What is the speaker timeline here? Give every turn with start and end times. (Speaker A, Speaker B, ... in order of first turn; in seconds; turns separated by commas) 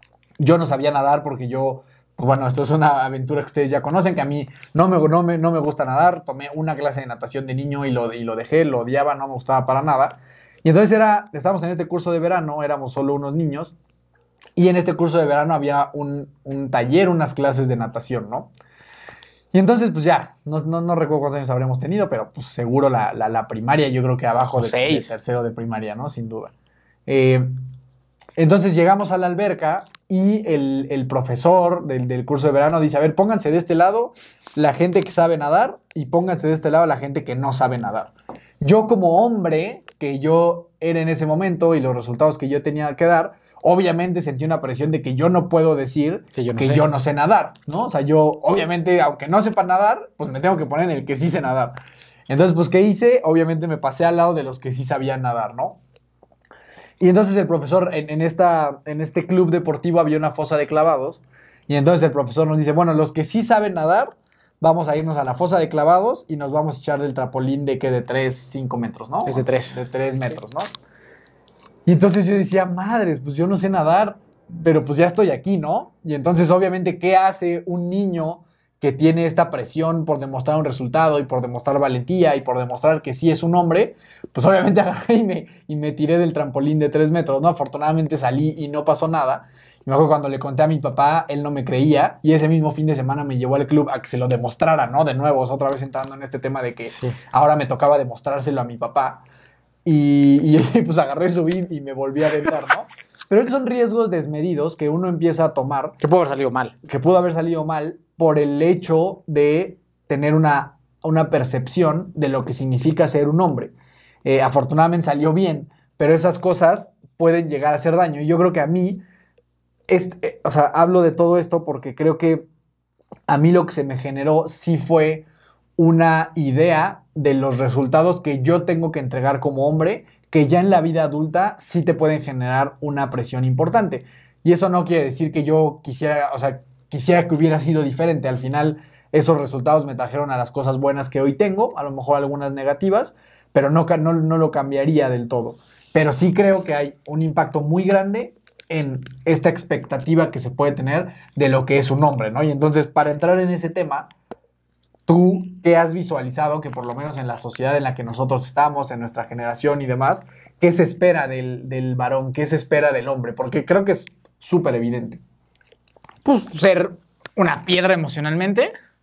Speaker A: 0.4-13.8, Speaker A: 14.6-18.5, Speaker A: 19.5-26.5, Speaker B: 24.6-25.1, Speaker A: 27.1-27.5, Speaker A: 28.4-51.8, Speaker B: 46.4-46.8, Speaker A: 52.3-55.8, Speaker A: 57.0-70.7, Speaker B: 69.3-69.8, Speaker A: 71.9-99.2, Speaker A: 99.8-106.0, Speaker B: 106.0-106.7, Speaker A: 106.8-113.7, Speaker A: 114.2-119.0, Speaker A: 119.9-122.5, Speaker A: 123.3-154.1, Speaker A: 155.1-165.2, Speaker B: 166.2-168.7